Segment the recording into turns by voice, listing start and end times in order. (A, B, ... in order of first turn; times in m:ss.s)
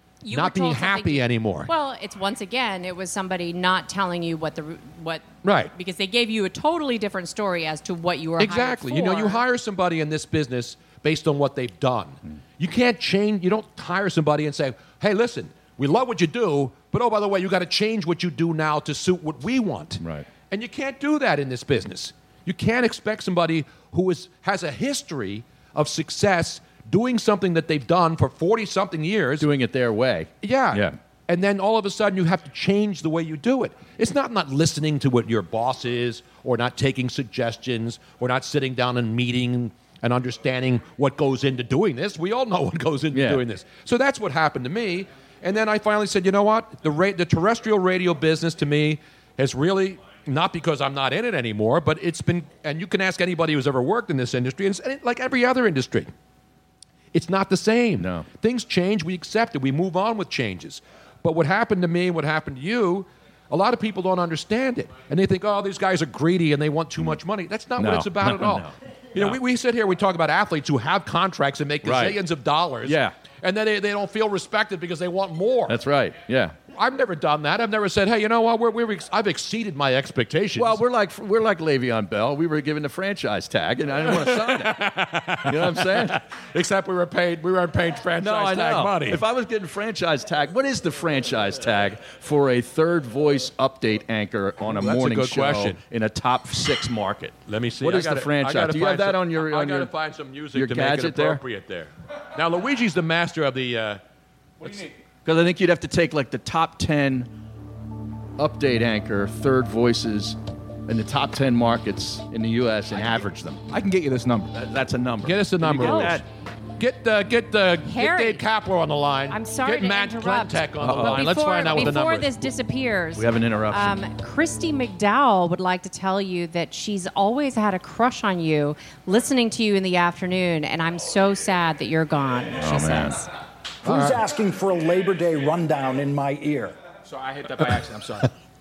0:00.2-0:09.4 A
0:00.3-0:01.7 B
0:05.4-0:05.7 B
0:08.4-0:29.5 B
0:20.0-0:20.3 C
0:29.4-0:31.0 C
0:30.4-0:56.1 B
0:43.1-0:43.4 C
0:57.1-1:15.8 B
0:58.0-0:58.3 C
1:07.8-1:09.4 C
1:11.8-1:12.2 C
1:12.8-1:13.1 C
1:15.7-1:16.6 C
1:16.7-1:20.8 B
1:20.6-1:24.8 C
1:24.0-1:29.2 B
1:25.4-1:26.2 C
1:28.2-1:39.9 C
1:34.6-1:35.8 B
1:37.5-1:44.0 B
1:40.5-1:41.4 C
1:45.2-1:47.3 C
1:48.4-1:53.6 C
1:53.7-1:54.5 D
1:54.5-1:56.2 C
1:55.2-1:56.2 B
1:55.8-1:56.1 A
1:56.8-2:02.5 B
1:57.8-1:58.4 A
1:59.3-2:13.3 A
2:00.8-2:02.0 C
2:03.1-2:04.0 C
2:12.6-2:13.2 C
2:13.8-2:16.8 E
2:13.8-2:14.2 B
2:17.0-2:18.3 D